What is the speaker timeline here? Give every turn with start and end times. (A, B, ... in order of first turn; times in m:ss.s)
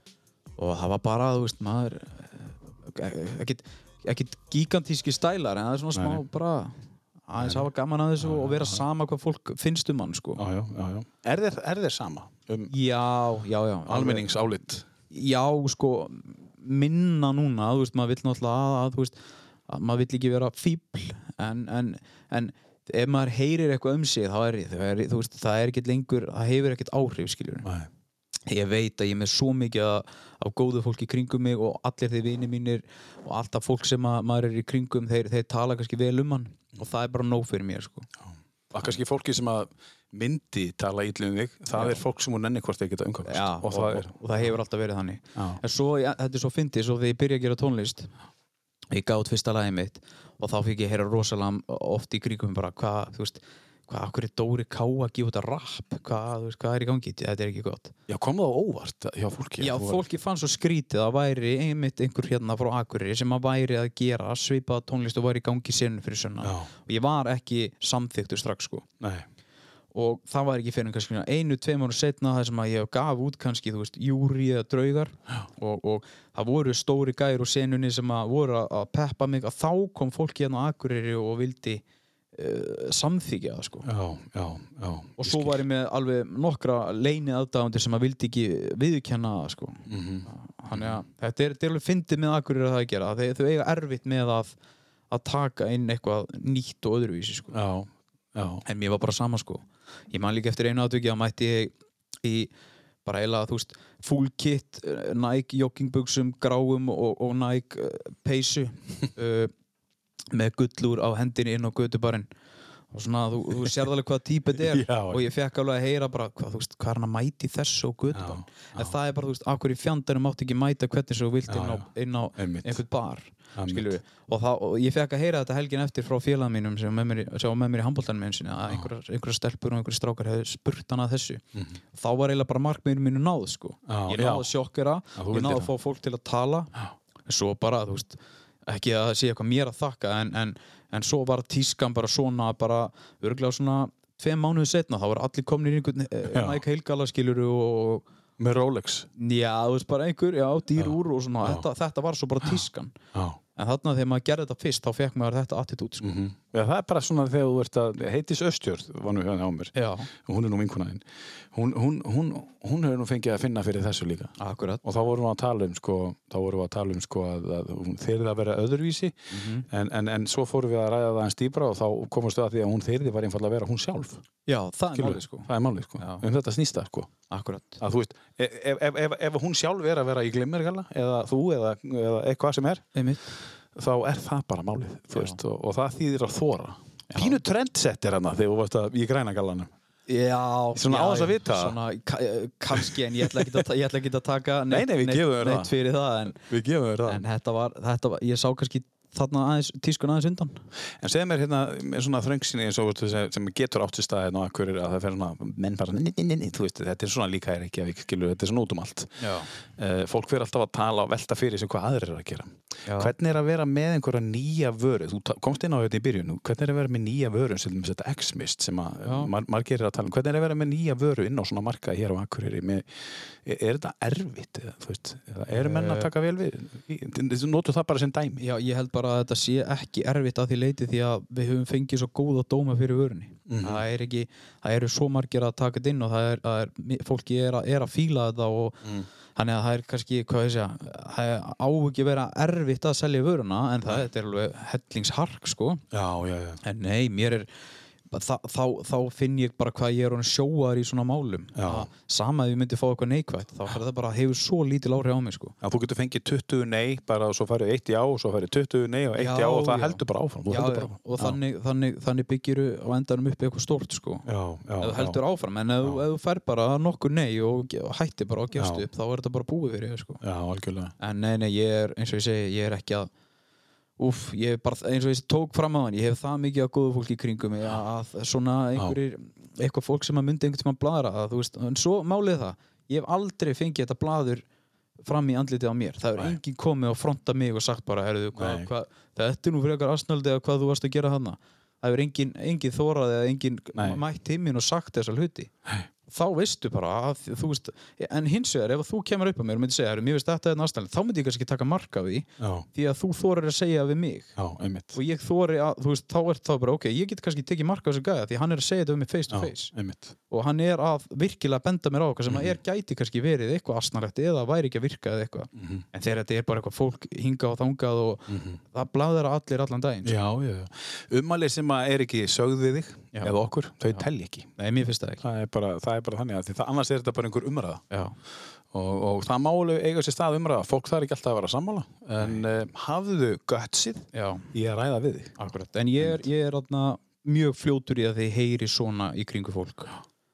0:00.6-0:10.4 A
0:06.0-0:06.2 B
0:07.4-0:08.8 B
0:10.4-0:12.7 B
0:12.7-0:14.3 A
0:13.9-0:14.9 B
0:15.1-0:27.7 A
0:27.6-0:27.9 B
0:28.5-0:38.1 A
0:38.7-0:44.1 B
0:41.7-0:42.0 A
0:43.3-0:48.1 A
0:45.4-0:45.6 B
0:48.9-0:57.9 A
0:58.1-1:00.1 B
0:59.6-1:08.9 A
1:06.4-1:06.7 B
1:09.0-1:09.3 B
1:09.9-1:21.8 A
1:22.4-1:23.9 A
1:23.8-1:25.6 B
1:25.2-1:34.6 A
1:29.9-1:31.0 B
1:35.1-1:37.6 A
1:37.5-1:38.6 B
1:38.6-1:42.5 A
1:43.0-1:49.5 A
1:50.3-1:52.3 A
1:52.9-2:11.4 A
1:54.6-1:55.3 B
1:58.1-1:58.9 B
2:01.5-2:02.8 B
2:03.6-2:04.0 B
2:11.5-2:11.8 B
2:11.9-2:16.7 A
2:13.9-2:14.5 B
2:15.2-2:15.7 B
2:17.3-2:28.1 A
2:26.3-2:26.6 B
2:28.4-2:29.1 B
2:29.2-2:33.0 A
2:30.8-2:31.7 B
2:33.1-2:33.4 B
2:33.6-2:36.2 A
2:36.0-2:49.2 B
2:39.8-2:40.1 A
2:44.4-2:44.8 A
2:49.3-2:49.7 A
2:49.7-2:54.2 B
2:54.5-2:56.2 A
2:55.0-2:57.1 B
2:57.3-2:57.8 A
2:57.8-3:02.8 B
3:03.0-3:03.4 A
3:03.8-3:09.7 B
3:05.1-3:05.4 A
3:07.1-3:07.4 A
3:10.1-3:16.4 A
3:10.8-3:11.8 B
3:12.8-3:13.6 B
3:14.7-3:15.8 B
3:16.3-3:17.2 B
3:17.1-3:20.6 A
3:21.0-3:48.4 B
3:29.2-3:29.5 A
3:32.9-3:33.1 A
3:39.1-3:39.3 A
3:45.5-3:46.1 A
3:48.4-3:58.8 A
3:53.5-3:53.8 B
3:59.4-4:05.8 A
4:05.9-4:06.6 B
4:06.6-4:07.5 A
4:08.1-4:15.6 A
4:11.6-4:11.9 B
4:15.6-4:21.4 B
4:19.2-4:24.2 A
4:24.3-4:25.2 B
4:24.8-4:30.2 A
4:28.6-4:28.9 B
4:30.2-4:30.9 B
4:31.0-4:33.1 A
4:34.0-4:44.4 A
4:45.0-4:55.5 A
4:48.4-4:48.7 B
4:53.8-4:54.0 B
4:56.1-5:04.3 A
5:02.4-5:02.7 B
5:04.4-5:05.0 B
5:04.9-5:09.7 A
5:09.3-5:10.1 B
5:10.3-5:20.2 A
5:12.3-5:12.6 B
5:15.6-5:15.8 B
5:18.3-5:18.6 B
5:20.0-5:24.5 B
5:24.6-5:25.2 A
5:25.2-5:27.8 B
5:27.9-5:28.2 A
5:28.7-5:35.4 B
5:32.2-5:32.4 A
5:34.1-5:34.5 A
5:35.4-5:40.0 A
5:36.0-5:36.2 B